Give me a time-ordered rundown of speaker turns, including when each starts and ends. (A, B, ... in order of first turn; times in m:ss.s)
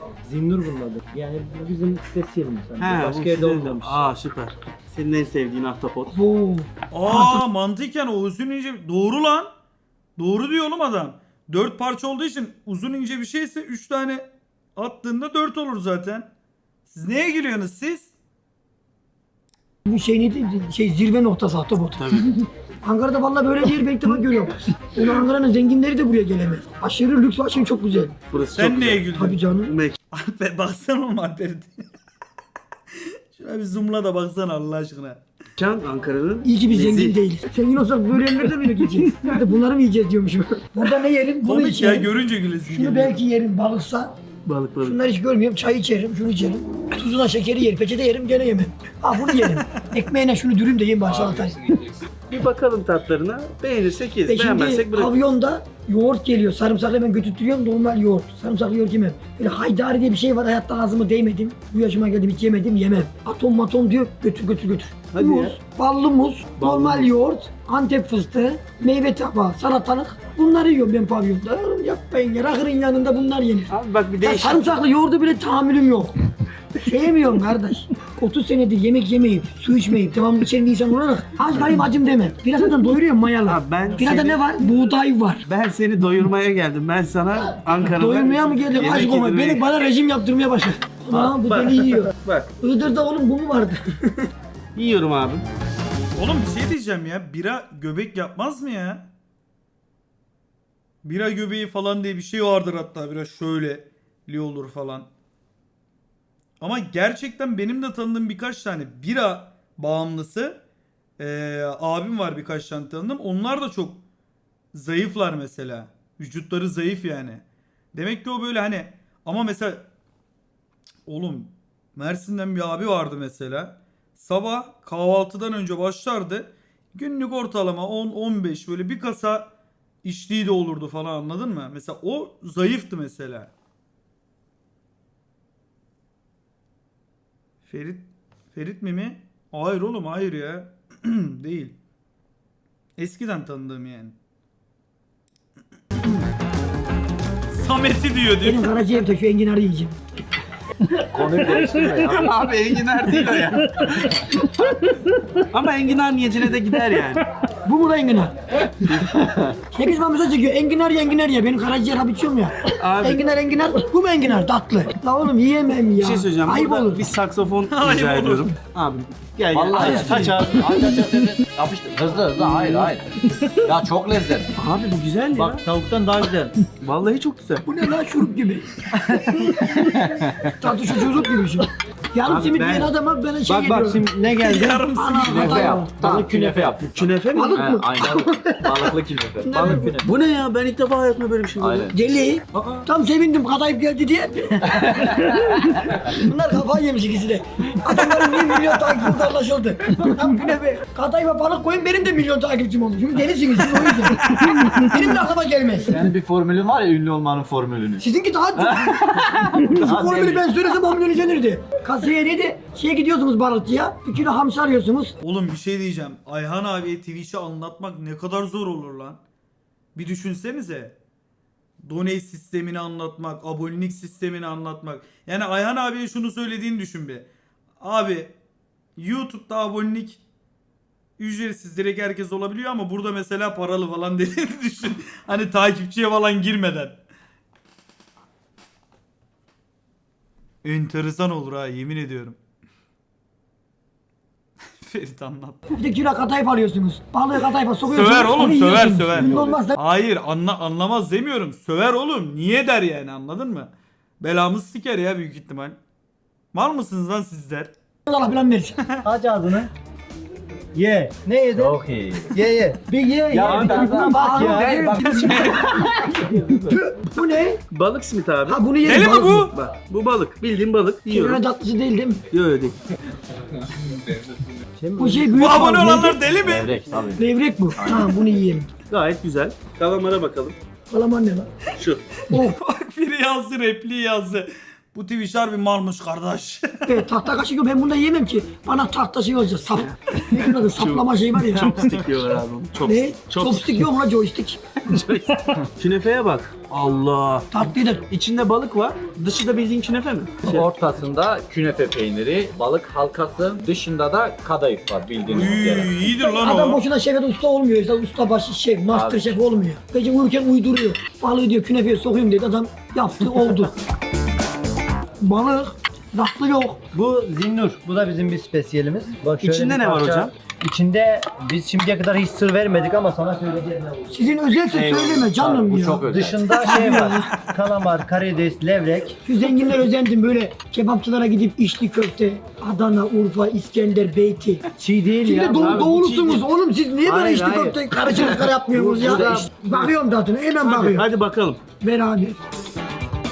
0:00.2-0:04.0 A
0:02.8-0:06.1 B
0:06.1-0:07.4 C
0:06.9-0:09.5 D
0:10.2-0:16.3 D
0:16.9-0:18.1 D
0:19.8-0:22.0 C
0:22.0-0:22.4 B
0:22.8-0:28.2 C
0:28.3-0:29.1 B
0:28.5-0:29.4 D
0:29.1-0:29.7 C
0:29.6-0:30.0 B
0:30.1-0:31.9 D
0:33.3-0:35.2 D
0:35.6-0:37.2 B
0:36.4-0:42.1 C
0:41.4-0:43.2 D
0:42.6-0:44.1 C
0:44.4-0:45.0 B
0:44.8-0:51.8 C
0:52.3-0:55.2 B
0:54.3-1:16.2 C
1:05.1-1:05.5 B
1:06.6-1:07.1 B
1:13.7-1:14.8 B
1:16.8-1:25.4 C
1:23.4-1:24.4 B
1:25.4-1:29.6 B
1:27.8-1:34.3 C
1:31.1-1:32.5 B
1:34.8-1:35.4 B
1:36.2-1:39.1 D
1:41.0-1:45.1 D
1:46.6-1:50.6 D
1:51.2-1:54.0 D
1:54.7-1:59.9 D
2:01.1-2:09.5 D
2:10.0-2:13.5 D
2:17.6-2:21.8 D
2:23.0-2:24.2 D
2:27.5-2:28.7 D
2:28.4-2:30.0 C
2:31.0-2:32.4 E
2:32.1-2:34.2 B
2:35.5-2:37.2 B
2:37.6-2:38.4 C
2:39.7-2:47.0 C
2:42.8-2:43.3 B
2:46.0-2:51.0 B
2:47.7-2:48.6 D
2:49.5-2:54.5 E
2:49.8-2:50.8 C
2:54.6-2:55.6 B
2:55.3-2:56.5 A
2:56.8-2:57.7 B
2:57.7-2:58.8 C
2:59.7-3:00.6 E
3:00.6-3:06.0 C
3:02.2-3:02.9 B
3:03.4-3:04.8 A
3:04.4-3:05.8 D
3:05.2-3:10.0 E
3:05.9-3:06.9 A
3:06.9-3:07.8 B
3:07.3-3:08.9 C
3:08.8-3:10.0 A
3:09.4-3:10.0 C
3:09.8-3:11.9 B
3:11.6-3:12.0 E
3:11.9-3:15.2 C
3:12.5-3:12.8 B
3:16.0-3:26.0 C
3:24.3-3:24.9 D
3:25.9-3:28.0 E
3:28.0-3:29.2 C
3:29.7-3:35.1 C
3:35.2-3:39.2 D
3:39.9-3:41.0 D
3:41.8-3:47.3 D
3:47.8-3:48.3 D
3:49.0-3:50.2 D
3:51.2-3:57.0 D
4:00.6-4:02.4 D
4:04.8-4:05.6 D
4:05.7-4:09.8 C
4:07.8-4:15.8 D
4:09.2-4:09.6 B
4:16.5-4:17.7 D
4:18.1-4:18.8 C
4:19.0-4:19.7 A
4:20.7-4:21.8 A
4:21.5-4:22.3 E
4:22.3-4:26.8 A
4:23.3-4:25.0 C
4:23.4-4:23.9 B
4:23.4-4:25.4 E
4:25.3-4:25.7 D
4:26.7-4:27.6 C
4:27.7-4:28.6 B
4:28.4-4:29.5 C
4:28.8-4:29.5 D
4:29.5-4:31.4 B
4:31.0-4:32.2 C
4:32.3-4:32.8 B
4:34.8-4:35.6 A
4:35.0-4:36.2 C
4:35.3-4:36.8 D
4:36.4-4:38.2 E
4:37.2-4:38.7 C
4:38.9-4:40.6 B
4:40.9-4:41.5 C
4:41.7-4:42.0 B
4:42.3-4:47.0 D
4:42.3-4:42.6 C
4:46.9-4:51.8 C
4:50.6-4:53.8 B
4:52.8-4:54.6 C
4:54.8-5:00.6 B
4:57.5-4:58.0 C
5:00.4-5:06.0 E
5:05.3-5:06.8 D
5:06.1-5:13.8 C
5:08.9-5:09.4 E
5:15.2-5:16.8 C
5:16.9-5:24.1 A
5:19.4-5:20.3 B
5:24.1-5:27.4 C
5:24.7-5:25.3 B
5:25.3-5:26.6 E
5:26.0-5:29.2 A
5:29.2-5:34.7 C
5:34.8-5:35.8 A
5:35.2-5:41.1 C
5:35.4-5:36.5 B
5:37.0-5:37.8 A
5:38.7-5:39.9 A
5:40.6-5:41.6 B
5:41.8-5:42.4 C